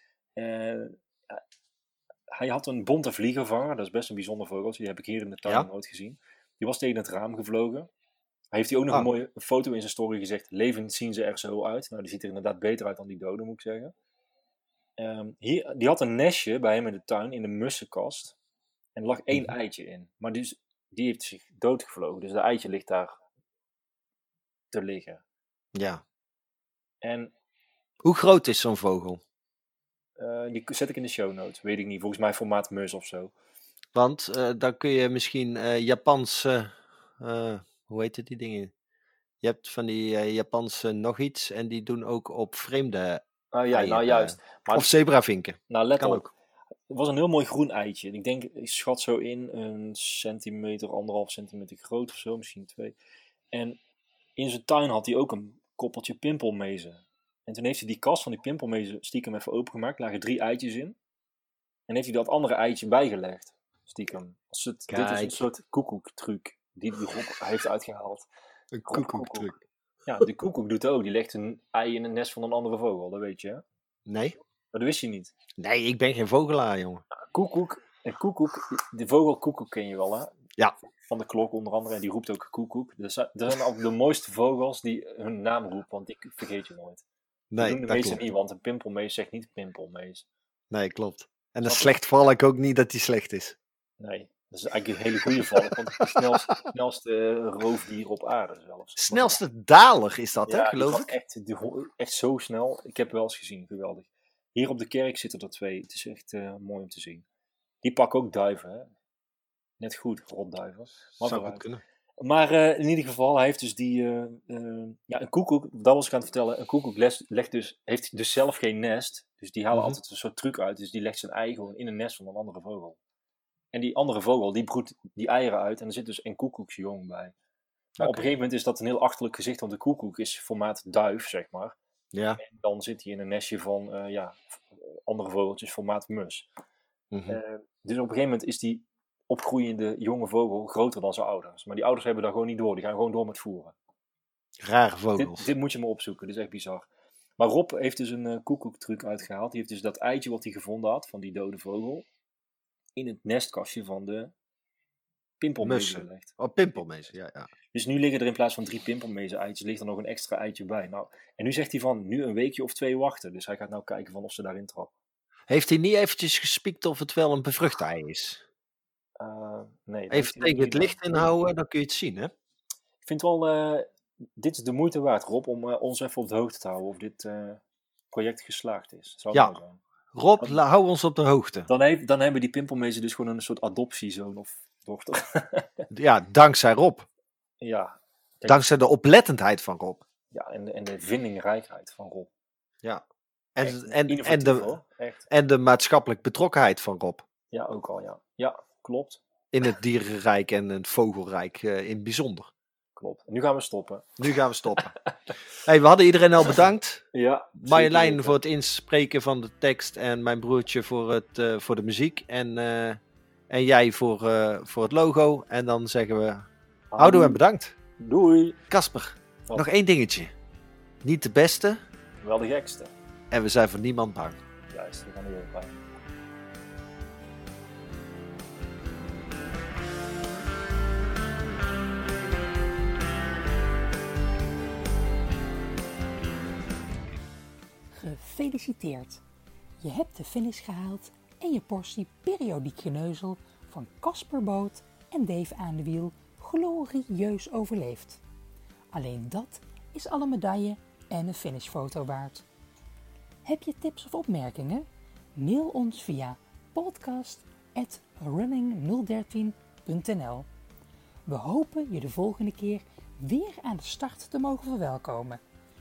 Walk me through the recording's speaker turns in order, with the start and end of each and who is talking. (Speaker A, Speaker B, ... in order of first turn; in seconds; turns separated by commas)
Speaker A: 0.4-1.4, Speaker A: 2.3-7.9, Speaker A: 8.5-13.9, Speaker A: 15.0-18.3, Speaker A: 18.9-23.2, Speaker A: 24.7-25.2, Speaker B: 25.7-26.0, Speaker A: 27.0-27.3, Speaker B: 28.0-29.2, Speaker A: 30.2-33.3, Speaker B: 33.9-38.7, Speaker B: 39.4-46.3, Speaker A: 43.5-44.9, Speaker A: 45.7-46.3, Speaker A: 46.9-52.9, Speaker A: 53.5-53.8, Speaker A: 54.4-61.0, Speaker A: 61.9-68.3, Speaker B: 64.9-65.4, Speaker B: 68.7-69.6, Speaker A: 68.9-69.5, Speaker A: 70.1-73.6, Speaker B: 74.1-74.4, Speaker A: 74.7-75.3, Speaker B: 75.6-77.0, Speaker A: 77.1-80.3, Speaker A: 81.0-87.0, Speaker B: 87.5-88.2, Speaker A: 87.6-90.2, Speaker B: 90.7-93.6, Speaker A: 91.6-91.9, Speaker A: 94.0-99.4, Speaker B: 99.0-101.2, Speaker A: 100.5-107.2, Speaker A: 107.8-108.9, Speaker A: 109.8-111.6, Speaker B: 111.2-111.8, Speaker A: 112.2-123.0, Speaker A: 123.7-127.3, Speaker B: 128.0-128.2, Speaker A: 128.0-131.8, Speaker B: 132.1-132.4, Speaker A: 132.4-136.5, Speaker B: 137.1-137.4, Speaker A: 137.3-143.7, Speaker B: 144.6-145.5, Speaker A: 145.2-146.9, Speaker A: 147.4-152.0, Speaker A: 152.9-154.3, Speaker A: 155.4-156.4, Speaker B: 155.6-157.5, Speaker A: 157.7-164.9, Speaker B: 165.5-168.4, Speaker A: 169.2-171.0, Speaker B: 170.1-172.3, Speaker A: 173.0-179.8, Speaker B: 180.1-181.7, Speaker A: 181.7-185.7, Speaker B: 185.9-187.1, Speaker A: 187.6-188.6, Speaker B: 188.4-190.0, Speaker A: 190.3-192.3, Speaker B: 193.6-194.7, Speaker A: 193.6-195.3, Speaker B: 195.3-197.2, Speaker A: 197.5-199.2, Speaker B: 199.5-202.5, Speaker A: 203.0-204.1, Speaker B: 204.2-204.9, Speaker A: 204.8-205.3, Speaker B: 205.6-216.5, Speaker A: 207.1-208.4, Speaker A: 216.9-217.4, Speaker B: 217.0-217.7, Speaker A: 218.0-218.6, Speaker B: 218.7-220.3, Speaker B: 221.0-221.8, Speaker A: 222.2-222.9, Speaker B: 223.3-224.4, Speaker A: 224.7-225.8, Speaker C: 237.9-239.2, Speaker C: 239.8-248.2, Speaker C: 248.9-252.4, Speaker C: 253.4-260.5, Speaker C: 261.2-265.4